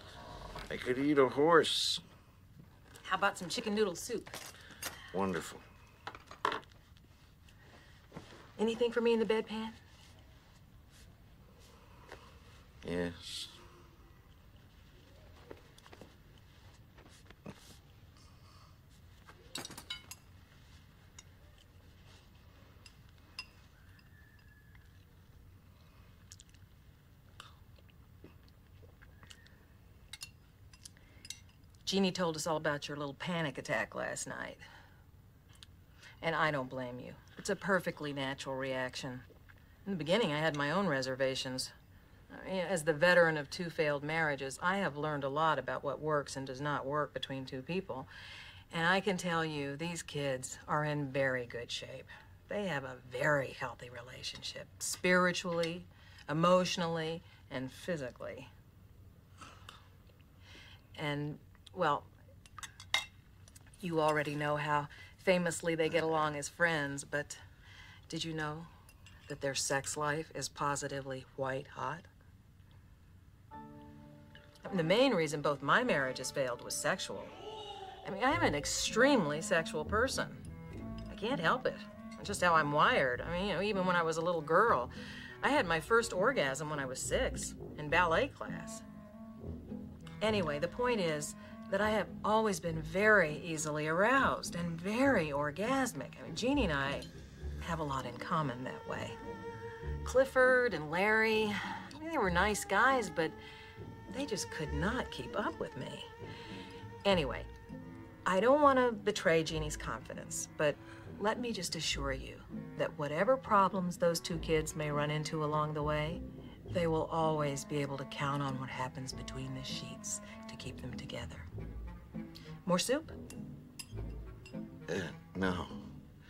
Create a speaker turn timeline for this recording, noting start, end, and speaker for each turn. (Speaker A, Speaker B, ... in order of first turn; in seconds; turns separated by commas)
Speaker A: 0.7-2.0, Speaker B: 3.0-4.4, Speaker A: 5.1-5.7, Speaker B: 8.6-9.8, Speaker A: 12.8-13.6, Speaker B: 31.9-34.6, Speaker B: 36.2-39.2, Speaker B: 39.9-41.7, Speaker B: 42.3-48.1, Speaker B: 48.7-58.5, Speaker B: 61.0-62.1, Speaker B: 63.8-67.4, Speaker B: 68.1-68.7, Speaker B: 69.3-72.1, Speaker B: 74.6-77.3, Speaker B: 78.0-80.4, Speaker B: 81.1-88.8, Speaker B: 90.2-97.1, Speaker B: 97.6-99.2, Speaker B: 100.0-103.4, Speaker B: 104.1-106.1, Speaker B: 107.0-107.5, Speaker B: 108.3-121.5, Speaker B: 122.7-123.2, Speaker A: 124.9-125.8